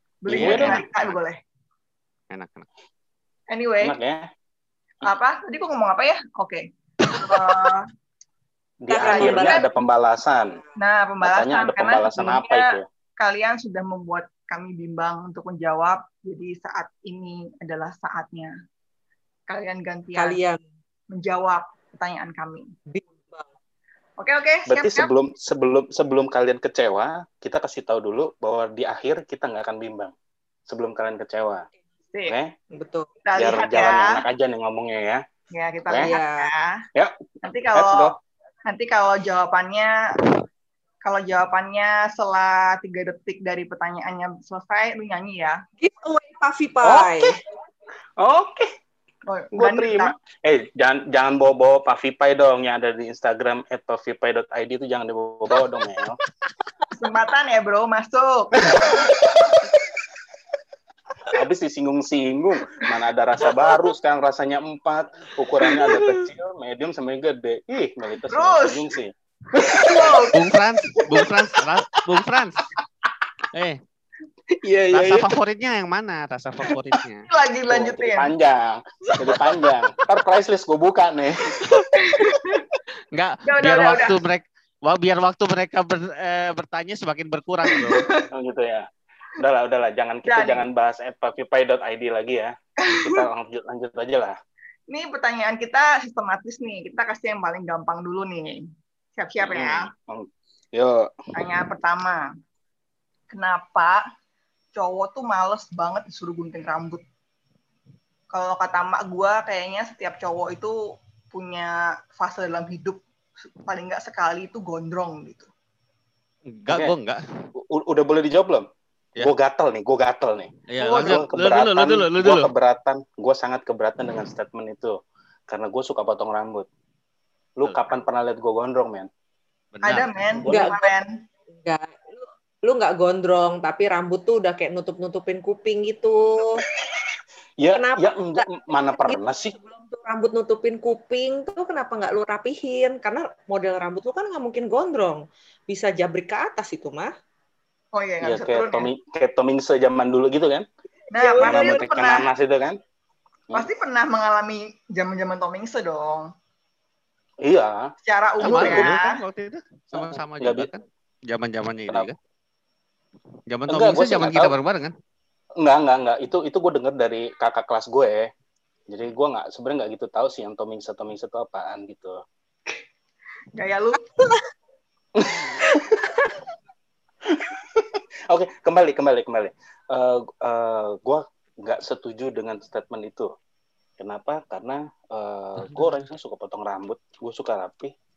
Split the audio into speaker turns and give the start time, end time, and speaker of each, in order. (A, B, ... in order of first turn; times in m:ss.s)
0:00.2-0:01.4 A
0:00.3-0:00.8 B
0:00.3-0:01.2 C
0:02.3-0:02.7 C
0:03.5-0:04.0 A
0:03.8-0:04.2 B
0:05.0-0:07.9 A
0:08.8-0:10.6 B
0:08.9-0:09.7 D
0:09.0-0:09.7 A
0:10.8-0:12.6 A
0:11.2-0:12.8 B
0:13.2-0:18.5 A
0:19.5-0:20.4 A
0:20.2-0:20.6 D
0:21.1-0:22.7 A
0:22.9-0:23.5 D
0:24.2-0:25.1 A
0:24.7-0:30.1 B
0:30.7-0:31.6 B
0:32.3-0:32.5 B
0:32.7-0:33.1 D
0:33.2-0:34.2 A
0:33.4-0:35.2 B
0:35.5-0:36.8 A
0:35.9-0:36.1 B
0:36.0-0:36.5 D
0:37.4-0:38.1 A
0:37.7-0:38.2 B
0:38.7-0:39.9 A
0:41.0-0:45.6 A
0:45.8-0:47.4 D
0:46.8-0:47.3 B
0:48.2-0:48.7 B
0:49.3-0:50.1 A
0:49.5-0:56.2 B
0:56.9-0:59.1 A
0:58.6-0:59.3 B
1:01.3-1:10.2 B
1:05.8-1:06.3 D
1:08.3-1:08.8 A
1:09.6-1:10.4 A
1:10.3-1:12.6 C
1:10.9-1:11.2 A
1:13.5-1:13.8 C
1:14.6-1:15.3 B
1:14.9-1:17.3 C
1:17.3-1:18.3 A
1:17.7-1:21.6 B
1:22.0-1:22.7 A
1:23.1-1:28.1 C
1:23.4-1:24.2 A
1:27.7-1:28.3 A
1:28.3-1:28.9 B
1:29.4-1:34.4 B
1:30.3-1:30.6 A
1:32.9-1:33.2 A
1:34.9-1:38.6 A
1:39.2-1:39.9 A
1:39.4-1:41.1 B
1:41.4-1:42.3 A
1:43.3-1:44.0 A
1:44.8-1:47.0 A
1:48.3-1:50.8 A
1:51.3-1:53.0 A
1:53.6-1:55.5 A
1:56.5-1:57.5 C
1:57.6-1:58.7 B
1:59.2-2:05.0 B
2:00.7-2:02.5 C
2:00.8-2:01.2 A
2:05.5-2:06.7 B
2:07.6-2:09.1 B
2:07.6-2:07.9 C
2:09.7-2:10.1 C
2:09.8-2:11.1 A
2:10.4-2:10.7 B
2:10.5-2:10.9 D
2:11.6-2:16.7 D
2:17.6-2:19.5 B
2:17.8-2:27.1 D
2:28.0-2:28.9 A
2:28.2-2:30.7 B
2:31.1-2:32.3 A
2:31.2-2:32.1 D
2:31.4-2:32.8 B
2:33.5-2:36.3 A
2:37.4-2:38.9 B
2:38.1-2:39.2 A
2:38.4-2:42.2 C
2:40.0-2:40.7 B
2:43.5-2:44.9 C
2:43.7-2:44.6 B
2:45.6-2:48.3 B
2:48.9-2:52.2 B
2:53.6-2:54.0 A
2:55.2-2:55.8 B
2:57.3-3:03.3 B
3:04.0-3:07.9 B
3:05.6-3:05.9 C